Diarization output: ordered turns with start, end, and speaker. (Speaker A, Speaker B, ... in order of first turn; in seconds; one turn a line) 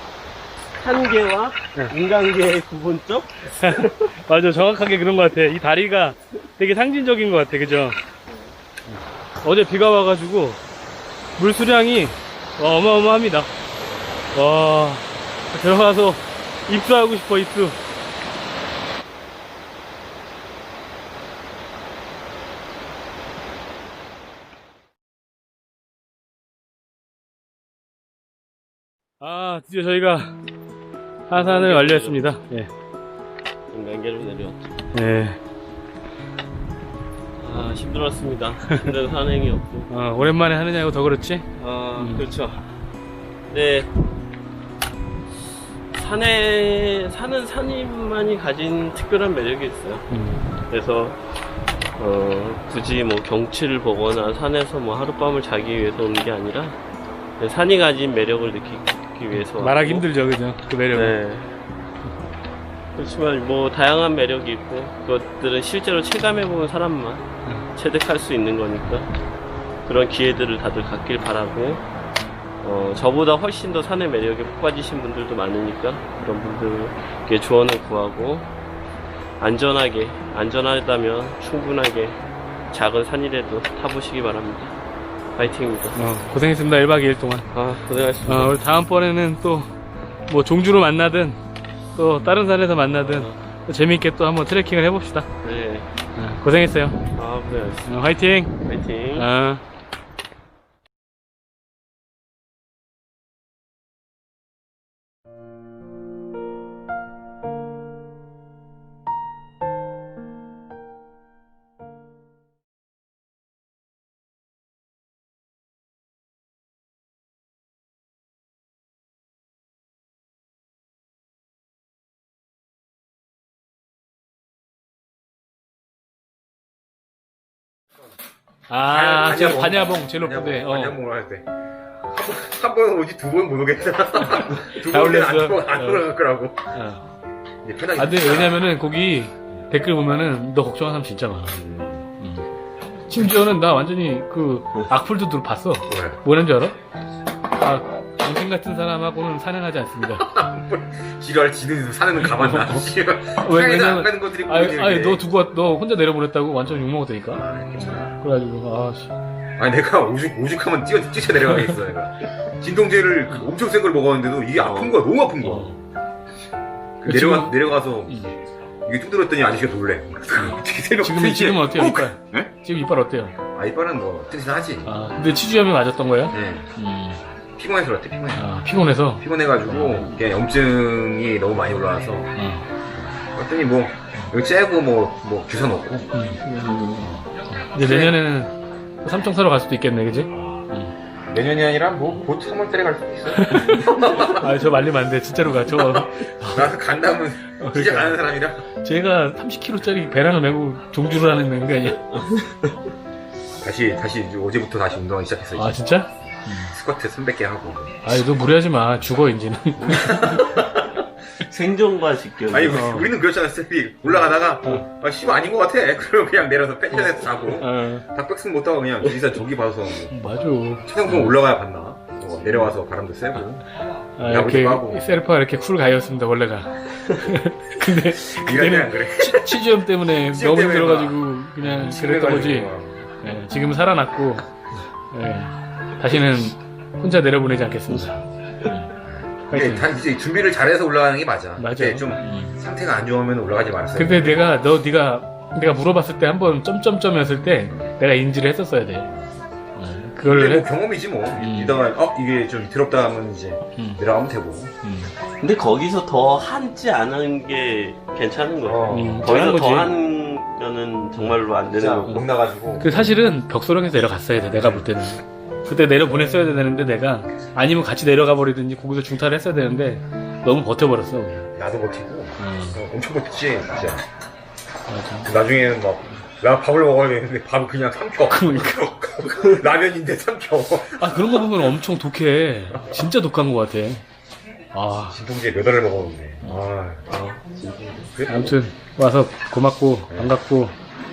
Speaker A: 0.8-4.2
Speaker B: 3.6-8.0
Speaker B: 8.9-10.6
Speaker B: 11.4-13.5
Speaker B: 14.3-17.8
Speaker B: 29.2-30.4
Speaker B: 31.3-32.7
Speaker A: 31.3-32.2
Speaker A: 33.7-34.8
Speaker B: 34.9-35.4
Speaker A: 37.4-39.9
Speaker B: 39.9-42.2
Speaker A: 41.6-42.6
Speaker A: 43.5-43.9
Speaker A: 45.9-50.1
Speaker B: 50.1-50.5
Speaker A: 50.7-51.2
Speaker A: 52.0-56.8
Speaker A: 57.4-60.0
Speaker B: 59.3-61.2
Speaker A: 60.9-61.6
Speaker A: 63.0-69.1
Speaker A: 69.8-71.8
Speaker A: 72.6-78.5
Speaker A: 79.4-82.2
Speaker A: 82.7-84.8
Speaker A: 85.3-86.0
Speaker B: 85.9-87.5
Speaker A: 87.5-88.5
Speaker B: 88.2-89.7
Speaker B: 90.3-91.4
Speaker B: 91.9-95.3
Speaker A: 92.9-93.4
Speaker A: 95.4-95.9
Speaker B: 96.2-97.0
Speaker A: 97.1-98.0
Speaker B: 97.8-98.5
Speaker A: 98.6-99.3
Speaker B: 99.2-99.6
Speaker B: 128.7-131.0
Speaker C: 128.9-131.4
Speaker C: 132.0-136.7
Speaker B: 134.8-136.0
Speaker B: 136.7-137.0
Speaker C: 137.6-138.6
Speaker B: 137.9-142.5
Speaker C: 141.6-142.0
Speaker B: 143.1-146.7
Speaker C: 145.9-146.2
Speaker B: 147.6-150.2
Speaker C: 150.2-155.2
Speaker B: 152.2-159.1
Speaker C: 157.3-158.2
Speaker C: 159.6-165.8
Speaker B: 161.4-161.8
Speaker A: 164.6-165.0
Speaker B: 165.4-165.8
Speaker C: 167.0-172.5
Speaker B: 167.0-168.3
Speaker B: 170.3-173.3
Speaker C: 173.5-174.9
Speaker B: 174.8-177.2
Speaker C: 176.3-176.7
Speaker C: 177.6-178.5
Speaker B: 178.3-180.1
Speaker C: 179.2-182.3
Speaker B: 182.3-182.7
Speaker C: 182.9-186.1
Speaker B: 186.1-186.4
Speaker A: 186.5-187.1
Speaker B: 187.5-190.9
Speaker C: 187.8-188.2
Speaker C: 191.3-194.5
Speaker B: 193.3-196.7
Speaker C: 195.7-198.6
Speaker B: 197.6-198.2
Speaker B: 198.8-202.1
Speaker A: 202.3-202.7
Speaker C: 203.6-205.8
Speaker B: 205.6-206.7
Speaker C: 206.7-207.9
Speaker B: 208.0-210.5
Speaker C: 209.8-210.9
Speaker A: 211.5-212.9
Speaker C: 212.5-220.2
Speaker B: 212.6-213.1
Speaker B: 217.6-218.0
Speaker B: 220.1-221.3
Speaker C: 220.8-223.6
Speaker B: 224.2-234.4
Speaker C: 224.2-225.0
Speaker C: 228.2-229.6
Speaker C: 230.3-233.0
Speaker B: 235.1-238.9
Speaker C: 239.0-244.4
Speaker B: 239.5-239.9
Speaker B: 241.6-242.6
Speaker B: 243.9-249.1
Speaker B: 249.8-250.7
Speaker C: 250.2-254.7
Speaker B: 251.3-251.8
Speaker B: 253.8-254.0
Speaker B: 254.8-255.1
Speaker A: 255.4-262.1
Speaker C: 258.6-259.3
Speaker B: 258.9-259.9
Speaker C: 261.7-262.9
Speaker B: 262.8-271.5
Speaker C: 264.5-264.9
Speaker C: 271.6-274.0
Speaker B: 272.4-272.8
Speaker B: 274.9-275.3
Speaker C: 275.2-281.4
Speaker B: 278.3-278.8
Speaker B: 281.0-284.0
Speaker B: 284.7-285.2
Speaker C: 285.1-288.5
Speaker A: 287.1-287.6
Speaker B: 288.3-290.8